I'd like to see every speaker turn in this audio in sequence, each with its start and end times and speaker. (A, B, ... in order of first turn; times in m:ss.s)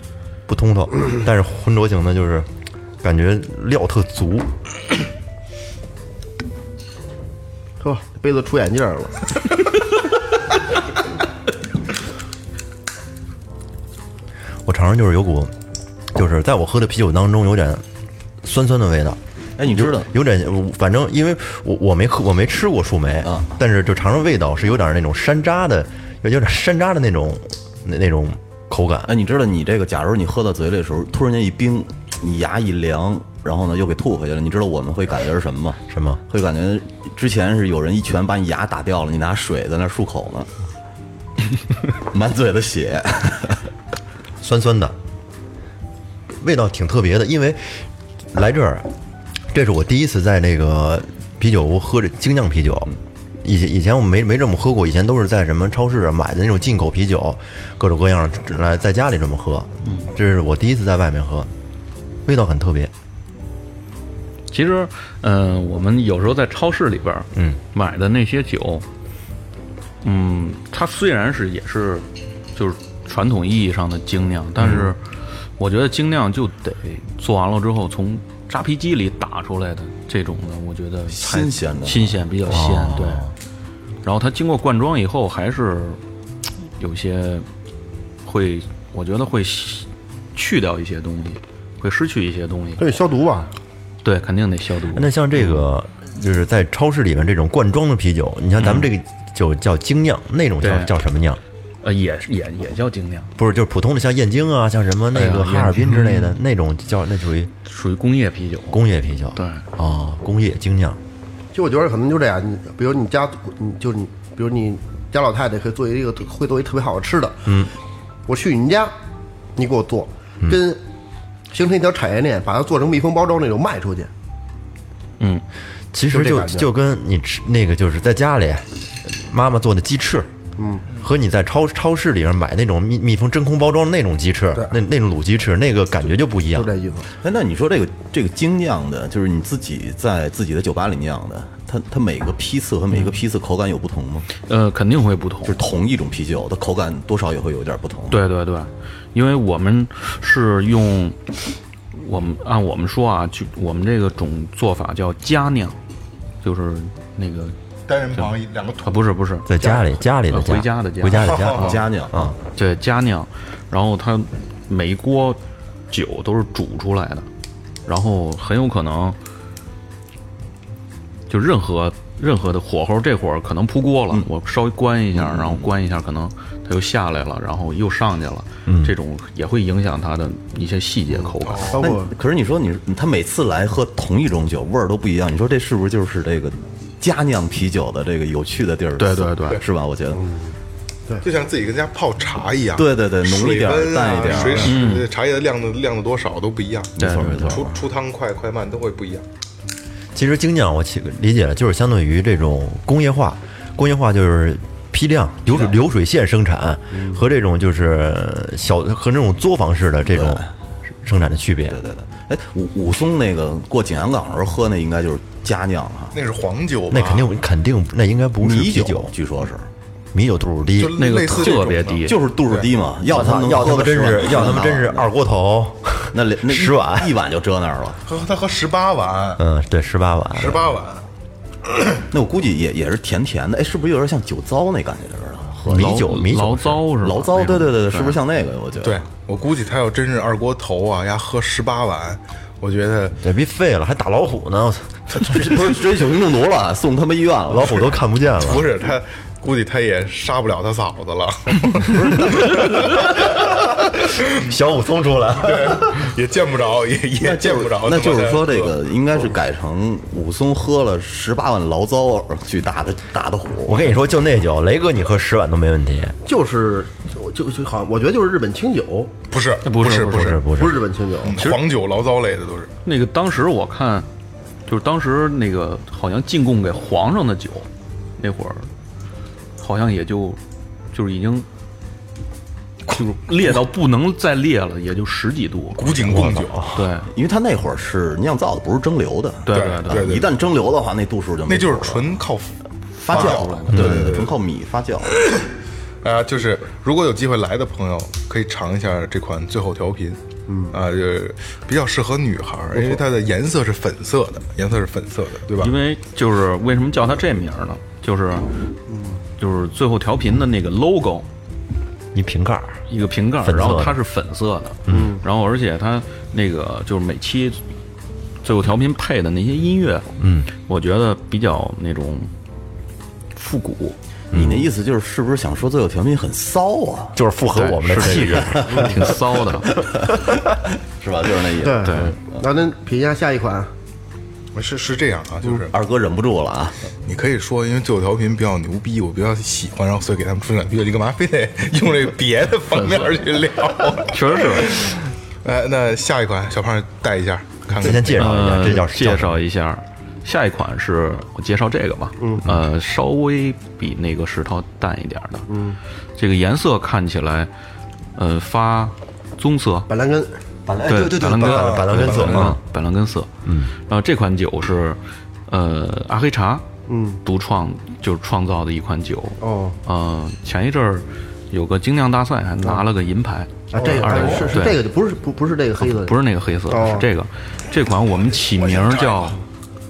0:00.5-0:02.5 A
0:03.0-0:04.5 A
0:07.8-0:09.3 B
0:14.6-0:15.5 A
0:16.1-0:17.8 A
0:18.4-0:29.1 A
0:19.6-0:20.1 C
0:23.2-0:23.6 C
0:29.1-0:40.5 C
0:35.9-0:36.2 A
0:41.9-0:43.6 C
0:44.4-0:44.9 A
0:46.4-0:48.9 A
0:49.5-1:01.5 A
1:02.2-1:02.9 A
1:04.5-1:08.8 D
1:10.0-1:15.0 D
1:15.6-1:23.3 D
1:21.1-1:22.2 C
1:22.5-1:23.3 A
1:24.0-1:26.0 D
1:26.8-1:27.5 D
1:28.2-1:32.8 D
1:32.8-1:33.5 B
1:34.0-1:35.6 D
1:34.9-1:41.4 A
1:38.6-1:38.9 D
1:40.6-1:40.9 D
1:41.8-1:43.3 D
1:43.4-1:47.5 A
1:45.1-1:46.3 D
1:47.6-1:48.8 D
1:48.7-1:51.0 A
1:49.3-1:49.6 D
1:51.5-1:57.5 B
1:57.4-1:57.7 A
1:58.3-1:58.9 B
1:59.6-2:00.8 B
2:01.5-2:04.1 B
2:05.9-2:10.3 A
2:06.1-2:06.7 B
2:10.6-2:10.9 B
2:11.0-2:16.7 A
2:16.5-2:17.1 B
2:17.2-2:24.3 C
2:24.5-2:25.6 D
2:25.4-2:28.2 C
2:28.1-2:31.2 D
2:31.9-2:35.8 D
2:36.4-2:37.5 D
2:37.9-2:39.1 E
2:38.1-2:41.8 D
2:39.4-2:42.4 A
2:41.1-2:41.8 E
2:41.5-2:42.3 C
2:42.5-2:47.3 D
2:47.8-2:49.2 D
2:51.3-3:01.9 D
2:55.1-2:55.7 C
2:58.6-2:58.9 A
3:01.2-3:02.1 B
3:01.4-3:01.9 E
3:01.8-3:10.2 C
3:09.0-3:09.6 D
3:10.2-3:10.5 B
3:11.2-3:19.2 E
3:12.8-3:14.9 C
3:14.6-3:15.1 D
3:17.0-3:17.8 C
3:17.0-3:17.6 D
3:20.1-3:30.4 A
3:30.1-3:30.5 C
3:31.0-3:31.8 A
3:31.7-3:36.2 C
3:36.1-3:37.3 E
3:36.9-3:39.1 A
3:38.4-3:39.7 C
3:40.1-3:41.0 A
3:40.8-3:42.7 E
3:41.0-3:42.2 D
3:42.0-3:45.1 C
3:43.0-3:47.1 A
3:46.1-3:48.0 C
3:48.0-3:49.4 E
3:49.4-3:50.6 A
3:50.4-3:51.0 E
3:52.1-3:56.0 C
3:55.6-3:56.8 A
3:55.7-3:58.2 D
3:57.0-3:59.0 C
3:58.8-4:03.2 E
4:03.2-4:05.7 A
4:05.2-4:07.8 C
4:07.5-4:08.7 A
4:07.6-4:13.4 E
4:11.8-4:12.6 C
4:14.0-4:14.4 E
4:14.2-4:16.0 A
4:15.4-4:18.7 E
4:17.2-4:23.9 C
4:23.7-4:26.2 A
4:26.2-4:29.1 B
4:29.3-4:30.5 E
4:29.6-4:30.4 D
4:30.0-4:30.8 A
4:30.5-4:31.5 B
4:31.2-4:32.7 E
4:32.8-4:34.1 D
4:34.7-4:38.7 D
4:39.6-4:40.4 D
4:40.9-4:41.5 D
4:42.9-4:47.1 D
4:45.8-4:46.6 E
4:46.1-4:46.7 A
4:47.0-4:52.1 C
4:49.4-4:50.1 D
4:49.5-4:50.3 E
4:51.5-4:52.6 E
4:53.0-4:55.2 C
4:53.1-4:54.0 D
4:53.1-4:54.3 E
4:53.7-4:54.1 A
4:56.0-5:00.2 E
5:00.5-5:00.8 B
5:00.7-5:05.7 E
5:02.7-5:03.0 B
5:05.6-5:08.5 D
5:08.9-5:09.2 B
5:09.4-5:11.3 D
5:12.1-5:12.8 A
5:12.9-5:17.6 D
5:13.4-5:14.0 A
5:14.9-5:15.2 A
5:14.9-5:15.2 B
5:18.4-5:20.1 D
5:20.2-5:20.5 A
5:20.6-5:22.3 D
5:23.3-5:24.0 D
5:24.3-5:24.6 A
5:24.3-5:27.2 C
5:27.1-5:29.0 A
5:27.5-5:29.7 D
5:28.4-5:28.9 C
5:29.6-5:32.4 C
5:31.6-5:33.7 B
5:31.8-5:32.1 D
5:34.5-5:35.7 E
5:35.7-5:36.8 C
5:37.0-5:48.5 E
5:42.7-5:43.2 D
5:44.1-5:44.8 D
5:47.7-5:49.4 A
5:48.2-5:55.5 D
5:52.2-5:52.5 B
5:55.5-5:55.8 B
5:56.2-5:57.5 D
5:58.2-5:59.9 D
5:59.9-6:00.3 B
6:00.7-6:02.6 A
6:00.8-6:06.6 D
6:01.4-6:02.5 E
6:03.4-6:03.7 A
6:06.9-6:07.2 B
6:07.2-6:14.8 D
6:09.4-6:09.8 B
6:13.7-6:16.2 B
6:15.8-6:19.4 D
6:16.7-6:17.1 B
6:18.7-6:19.3 E